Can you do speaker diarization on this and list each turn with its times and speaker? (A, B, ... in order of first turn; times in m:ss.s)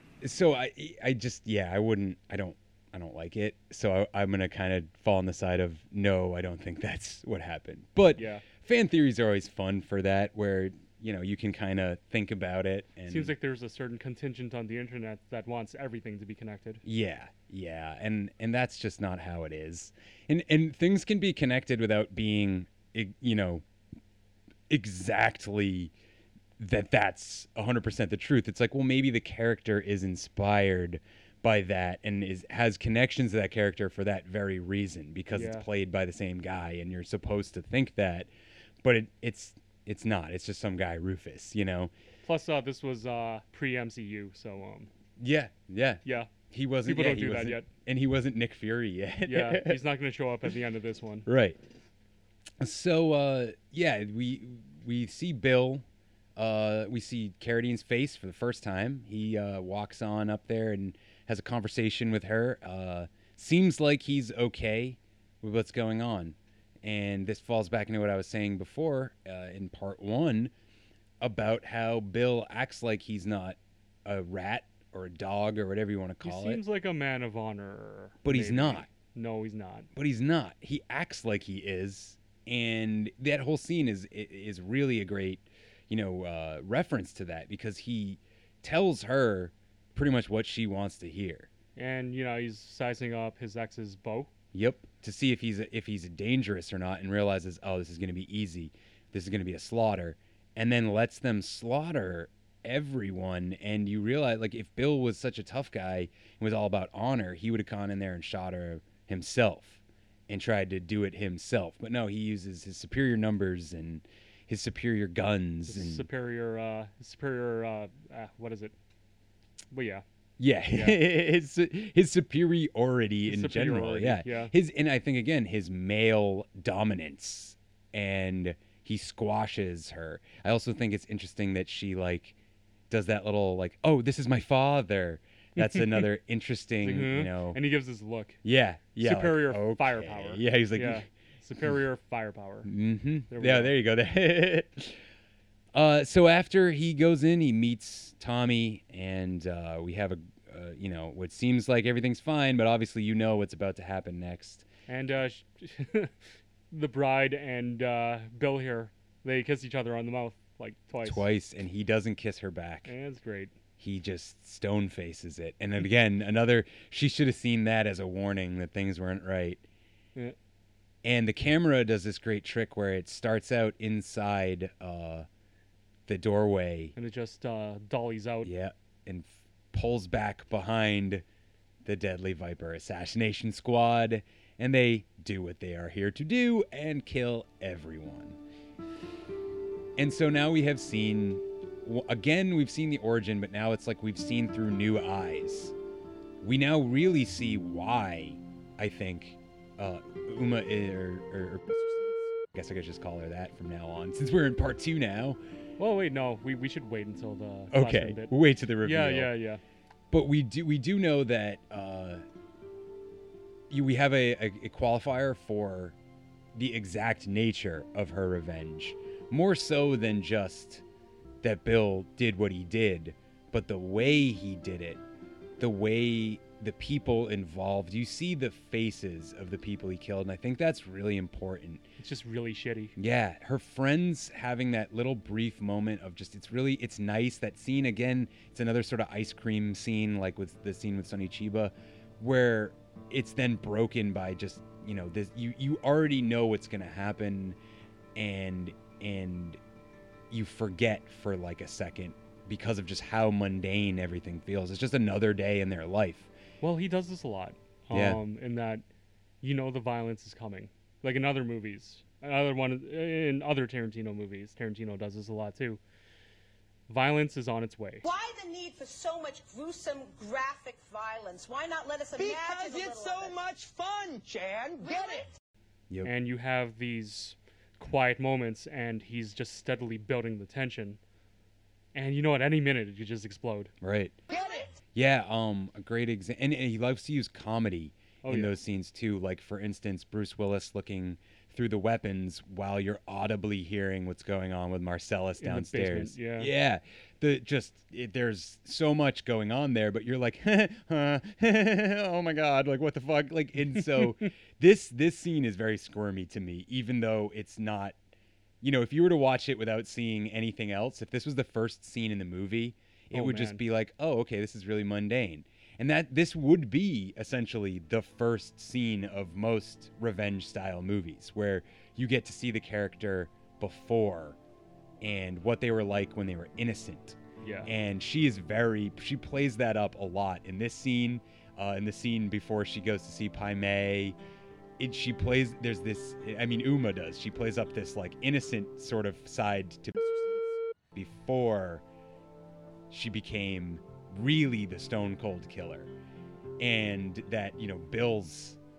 0:00.2-0:13.3 A
0:08.1-0:08.4 B
0:13.1-0:16.8 B
0:16.8-0:23.6 A
0:24.7-0:25.9 A
0:26.6-0:38.3 A
0:35.3-0:35.7 B
0:38.8-0:41.9 A
0:42.2-0:44.9 B
0:45.2-0:49.8 A
0:46.0-0:46.3 B
0:46.8-0:47.7 B
0:49.2-0:51.3 B
0:51.2-0:51.6 A
0:52.6-1:10.5 A
1:11.2-1:16.6 A
1:16.2-1:19.9 B
1:18.2-1:18.9 A
1:19.9-1:31.5 A
1:31.8-1:34.3 B
1:34.5-1:56.1 A
1:55.7-1:58.7 B
1:59.7-2:00.0 B
2:00.4-2:12.3 A
2:00.7-2:01.0 B
2:03.2-2:04.5 B
2:12.9-2:17.6 A
2:15.6-2:16.1 B
2:16.8-2:18.4 B
2:18.4-2:21.1 A
2:19.0-2:22.7 B
2:22.6-2:25.0 A
2:23.3-2:23.7 B
2:25.7-2:34.6 A
2:34.9-2:36.2 B
2:36.7-2:41.2 B
2:41.0-2:42.9 A
2:42.8-2:43.5 B
2:43.8-2:49.6 A
2:51.0-2:55.3 A
2:56.1-2:56.9 A
2:57.0-2:58.5 B
2:58.4-3:01.2 A
3:01.8-3:08.4 A
3:10.0-3:15.7 A
3:16.4-3:25.4 A
3:25.8-3:29.6 B
3:27.7-3:29.3 A
3:30.1-3:32.2 A
3:33.7-3:35.9 A
3:36.5-3:40.8 A
3:41.4-3:45.0 A
3:45.6-3:51.8 A
3:52.0-3:52.9 B
3:53.0-4:07.6 A
4:08.1-4:09.6 A
4:10.3-4:16.3 A
4:16.6-4:18.8 B
4:17.9-4:18.2 A
4:19.4-4:25.8 B
4:26.9-4:28.0 B
4:28.0-4:33.4 C
4:32.2-4:35.2 D
4:34.8-4:35.2 C
4:36.0-4:41.0 B
4:41.9-4:43.7 B
4:43.8-4:44.2 A
4:44.9-5:08.0 A
4:48.2-4:48.5 B
4:55.4-4:56.5 B
5:03.8-5:04.1 B
5:08.6-5:24.4 A
5:13.1-5:13.6 B
5:25.0-5:34.2 A
5:27.4-5:27.7 B
5:34.8-5:40.4 A
5:40.9-5:41.8 A
5:42.9-5:45.9 A
5:46.6-5:48.6 A